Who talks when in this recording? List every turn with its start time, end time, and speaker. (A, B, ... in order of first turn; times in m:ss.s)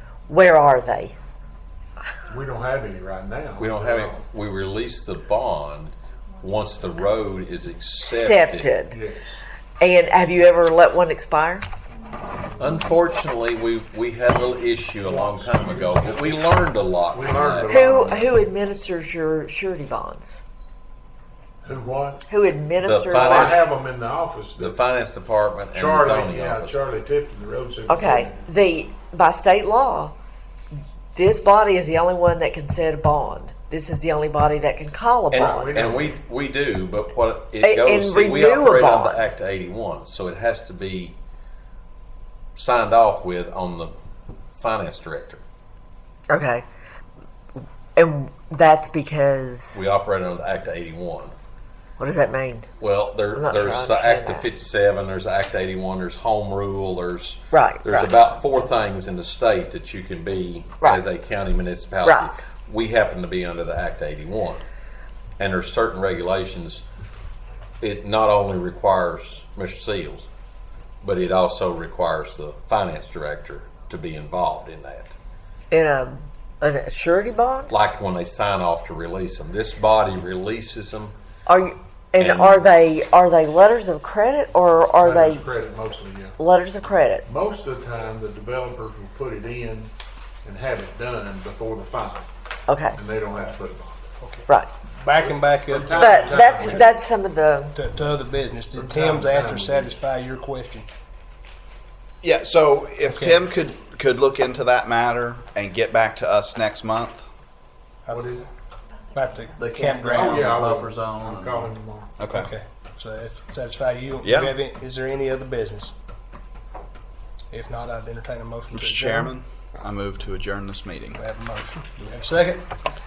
0:00.3-0:01.2 A
0:02.3-0:04.2 B
0:03.6-0:08.8 C
0:08.0-0:09.0 A
0:08.9-0:09.3 B
0:09.8-0:11.6 A
0:12.6-0:17.7 C
0:15.0-0:16.4 B
0:17.1-0:18.5 B
0:17.7-0:20.4 A
0:21.6-0:22.2 B
0:22.3-0:23.6 A
0:22.8-0:23.7 C
0:23.2-0:24.8 B
0:24.6-0:26.8 C
0:25.7-0:28.5 B
0:27.9-0:30.1 A
0:31.2-0:35.6 A
0:35.3-0:41.2 C
0:35.4-0:36.2 B
0:37.6-0:39.2 A
0:42.6-0:43.9 C
0:44.5-0:45.4 C
0:46.3-0:46.6 A
0:48.0-0:49.8 A
0:49.7-0:51.3 C
0:52.0-0:52.7 A
0:52.8-1:04.6 C
0:53.3-0:54.5 A
0:57.5-0:58.1 A
1:02.0-1:02.3 A
1:05.4-1:06.8 C
1:07.8-1:10.3 C
1:11.0-1:15.2 C
1:15.7-1:17.7 A
1:17.7-1:21.2 C
1:21.5-1:25.5 A
1:22.2-1:22.7 C
1:25.0-1:26.4 B
1:26.4-1:27.3 A
1:27.3-1:29.9 B
1:30.4-1:32.3 B
1:32.7-1:33.0 A
1:32.9-1:34.2 B
1:34.2-1:34.5 D
1:35.0-1:36.9 D
1:35.2-1:36.9 B
1:35.9-1:37.8 A
1:37.8-1:40.9 D
1:38.7-1:40.0 B
1:42.2-1:47.3 E
1:43.0-1:43.4 D
1:48.1-1:48.5 B
1:49.2-1:50.5 D
1:49.6-1:52.5 E
1:50.0-1:52.2 B
1:52.3-1:56.0 D
1:54.2-1:54.5 E
1:57.5-1:59.3 D
1:58.7-2:01.2 E
2:01.2-2:02.7 D